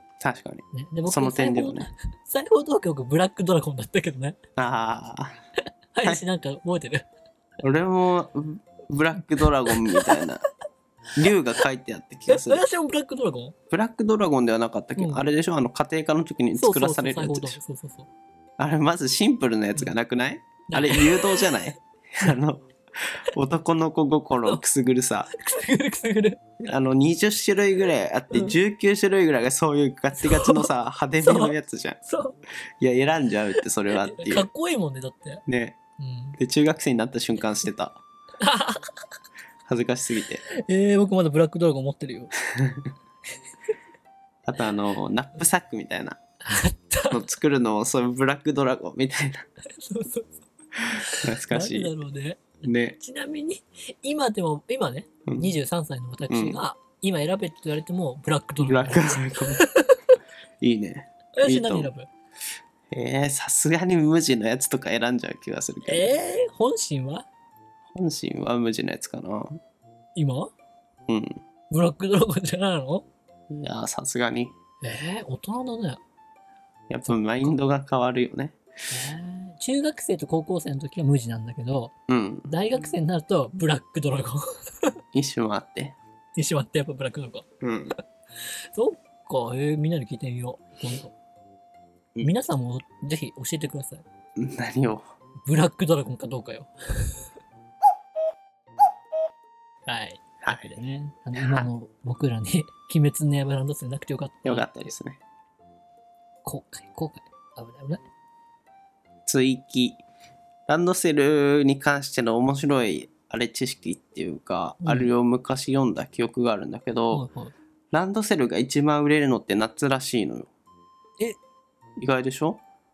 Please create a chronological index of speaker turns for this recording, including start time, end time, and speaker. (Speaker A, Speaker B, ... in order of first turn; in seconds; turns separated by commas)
Speaker A: 0.2-1.9, Speaker B: 0.7-4.4, Speaker A: 4.6-5.4, Speaker B: 5.9-7.1, Speaker A: 7.6-10.4, Speaker B: 9.1-10.2, Speaker A: 11.2-12.7, Speaker B: 12.3-13.6, Speaker A: 13.7-17.6, Speaker B: 15.0-15.3, Speaker B: 16.6-18.1, Speaker A: 18.6-25.3, Speaker B: 20.7-21.7, Speaker B: 25.3-26.4, Speaker A: 26.6-32.0, Speaker B: 30.2-32.4, Speaker A: 32.8-34.5, Speaker B: 34.0-35.4, Speaker A: 35.5-35.8, Speaker B: 36.0-36.4, Speaker A: 36.4-38.0, Speaker B: 38.4-38.8, Speaker A: 39.7-40.4, Speaker B: 40.5-42.3, Speaker A: 44.5-46.2, Speaker B: 46.4-47.2, Speaker A: 47.1-49.5, Speaker B: 49.8-60.1, Speaker A: 51.2-51.9, Speaker A: 52.6-53.0, Speaker A: 55.3-55.5, Speaker A: 56.3-56.6, Speaker A: 58.6-59.6, Speaker A: 60.6-61.9, Speaker B: 61.4-62.1, Speaker A: 62.9-66.1, Speaker B: 65.8-67.3, Speaker A: 67.9-69.6, Speaker B: 70.2-70.5, Speaker A: 71.1-71.4, Speaker B: 71.7-73.1, Speaker A: 73.5-74.5, Speaker B: 74.8-76.0, Speaker A: 76.9-78.6, Speaker B: 77.1-77.5, Speaker B: 78.9-81.9, Speaker A: 82.1-82.5, Speaker B: 82.5-85.0, Speaker A: 85.1-86.0, Speaker B: 86.4-87.5, Speaker A: 87.6-88.0, Speaker B: 88.7-91.1, Speaker B: 92.2-94.0, Speaker A: 94.4-95.0, Speaker B: 95.5-97.2, Speaker B: 99.9-104.9, Speaker A: 100.4-100.8, Speaker A: 101.4-101.7, Speaker A: 104.4-105.2, Speaker B: 106.5-108.0, Speaker A: 109.3-110.0, Speaker A: 110.7-117.2, Speaker B: 114.8-115.1, Speaker B: 117.1-117.5, Speaker A: 117.9-120.5, Speaker A: 122.0-122.6